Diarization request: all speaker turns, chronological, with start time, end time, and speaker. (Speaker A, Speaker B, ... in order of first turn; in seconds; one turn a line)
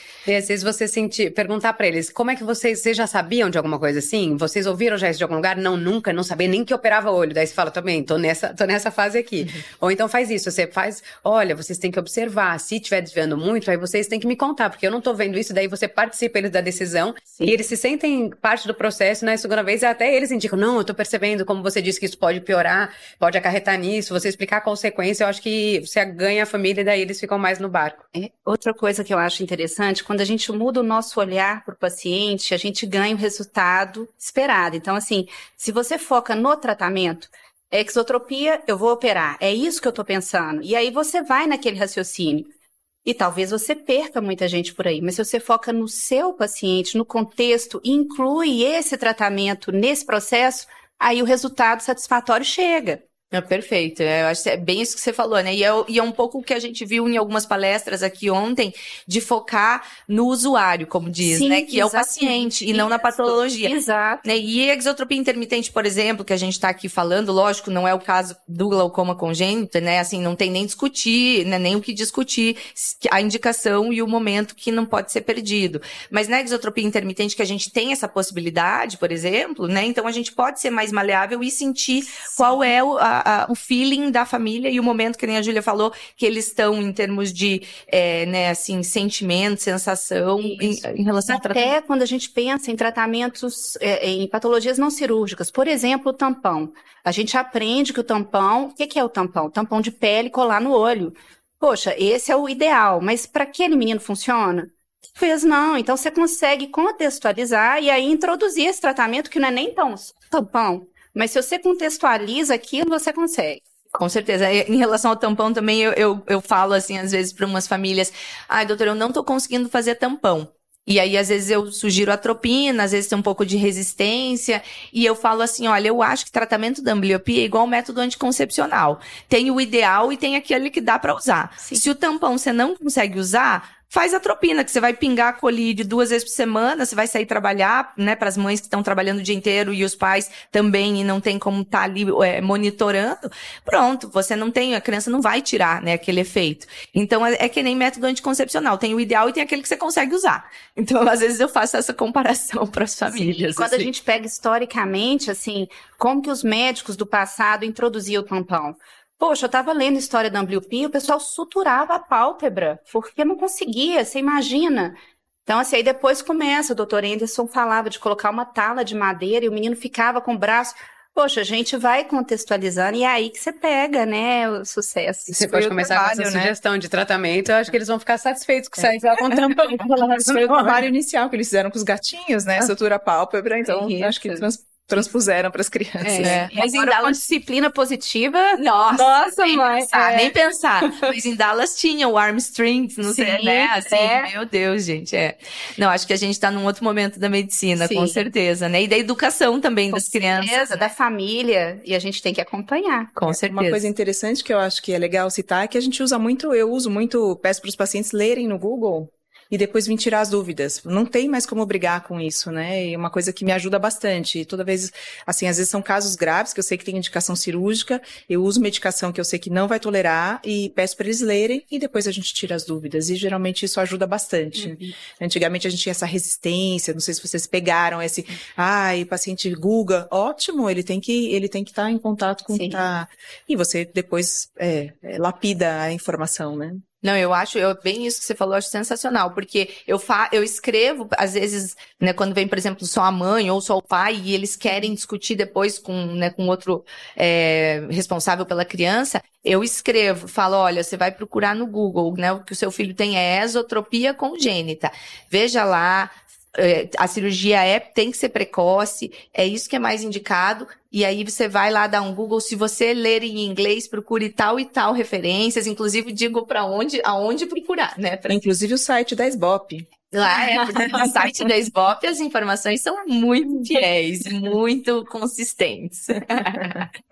Speaker A: 0.2-28.0
Speaker B: 28.1-42.5
Speaker B: 43.0-53.0
Speaker C: 53.3-63.7
Speaker B: 61.2-64.2
Speaker C: 64.2-91.6
Speaker B: 90.4-113.6
Speaker C: 113.9-153.9
Speaker B: 153.1-175.9
Speaker A: 175.3-180.8
Speaker D: 175.7-176.5
Speaker D: 179.2-186.4
Speaker B: 183.7-184.4
Speaker B: 186.0-191.1
Speaker C: 186.2-187.2
Speaker C: 188.6-200.9
Speaker B: 193.0-194.3
Speaker B: 197.8-198.2
Speaker B: 199.9-203.1
Speaker C: 203.2-203.9
Speaker D: 203.3-236.8
Speaker B: 232.5-232.8
Speaker C: 237.0-268.4
Speaker D: 268.3-269.9
Speaker C: 270.1-276.9